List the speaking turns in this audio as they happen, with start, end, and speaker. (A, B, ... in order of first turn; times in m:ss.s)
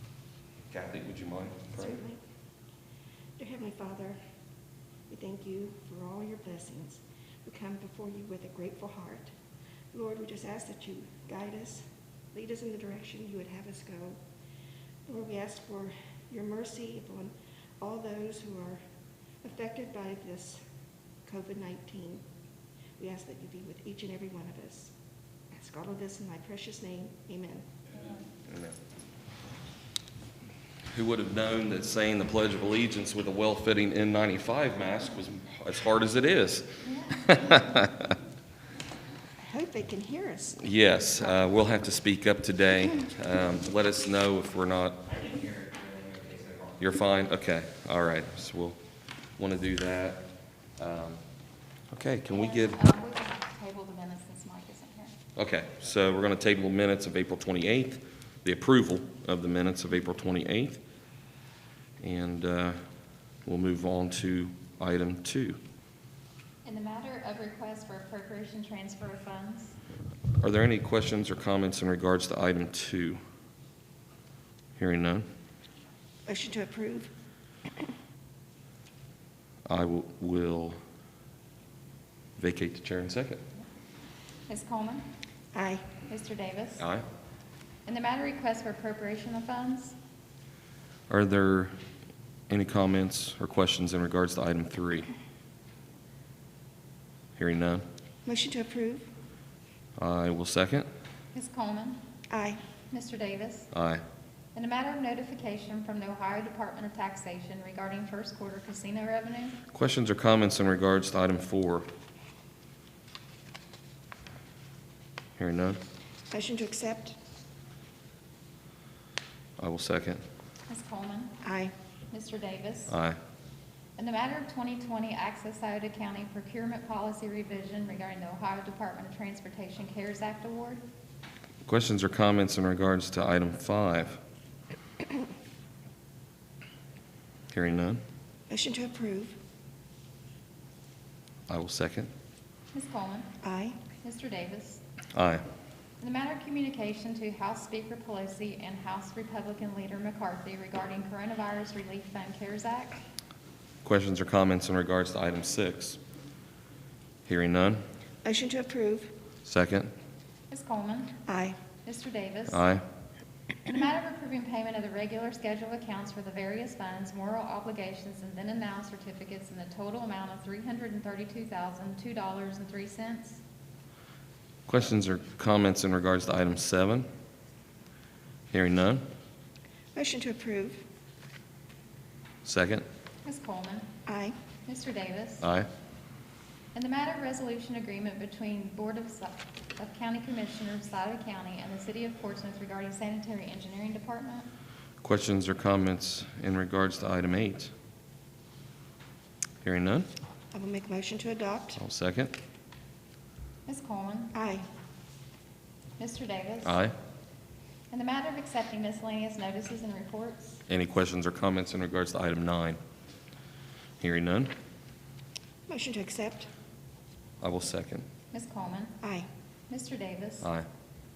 0:00.7-0:02.0 A
0:01.8-0:02.2 B
0:03.4-0:04.2 B
0:05.1-0:09.3 B
0:09.9-0:11.8 B
0:12.3-0:14.2 B
0:15.1-0:18.8 B
0:19.4-0:20.6 B
0:21.3-0:22.2 B
0:23.0-0:24.9 B
0:25.5-0:27.7 B
0:28.5-0:28.8 A
0:30.9-0:38.1 A
0:39.4-0:40.6 B
0:40.6-0:45.2 A
0:46.7-0:48.8 A
0:49.4-0:50.2 A
0:50.8-0:51.2 A
0:51.9-0:52.8 A
0:52.3-0:55.2 C
0:55.4-1:00.8 A
1:02.0-1:02.8 A
1:03.4-1:05.6 A
1:06.6-1:09.8 C
1:10.4-1:13.2 A
1:14.8-1:15.2 A
1:16.3-1:17.1 B
1:19.7-1:20.8 A
1:22.4-1:23.4 A
1:24.5-1:25.1 C
1:25.5-1:25.8 B
1:26.1-1:26.9 C
1:26.8-1:27.0 A
1:27.9-1:30.0 C
1:31.1-1:31.7 A
1:32.5-1:35.1 A
1:37.4-1:37.8 A
1:38.3-1:39.1 B
1:40.0-1:40.9 A
1:41.3-1:42.0 C
1:42.3-1:42.6 B
1:42.9-1:43.7 C
1:43.7-1:44.0 A
1:44.6-1:49.6 C
1:49.7-1:51.9 A
1:55.4-1:55.8 A
1:56.3-1:57.2 B
1:59.6-2:00.2 A
2:00.7-2:01.3 C
2:01.4-2:01.7 B
2:02.1-2:02.9 C
2:02.9-2:03.2 A
2:04.0-2:10.8 C
2:11.7-2:14.2 A
2:17.5-2:18.0 A
2:18.5-2:19.4 B
2:21.5-2:22.1 A
2:22.7-2:23.3 C
2:23.4-2:23.8 B
2:24.0-2:24.8 C
2:25.1-2:25.4 A
2:26.0-2:33.0 C
2:33.8-2:36.0 A
2:37.3-2:37.8 A
2:38.2-2:39.1 B
2:39.4-2:39.9 A
2:40.5-2:41.2 C
2:41.3-2:41.6 B
2:41.8-2:42.6 C
2:42.5-2:42.8 A
2:43.6-2:53.4 C
2:54.7-2:57.1 A
2:58.5-2:59.0 A
3:00.0-3:00.8 B
3:02.4-3:02.8 A
3:03.2-3:03.9 C
3:04.1-3:04.4 B
3:04.7-3:05.4 C
3:05.4-3:05.7 A
3:06.7-3:14.5 C
3:15.0-3:17.7 A
3:19.6-3:20.1 A
3:20.5-3:21.8 B
3:21.8-3:22.4 A
3:23.7-3:24.3 C
3:24.3-3:24.7 B
3:26.0-3:26.8 C
3:26.7-3:26.9 A
3:27.9-3:30.6 C
3:30.7-3:32.8 A
3:34.0-3:34.5 A
3:35.7-3:36.5 B
3:37.4-3:38.1 A
3:38.3-3:39.0 C
3:39.0-3:39.3 B
3:39.7-3:40.5 C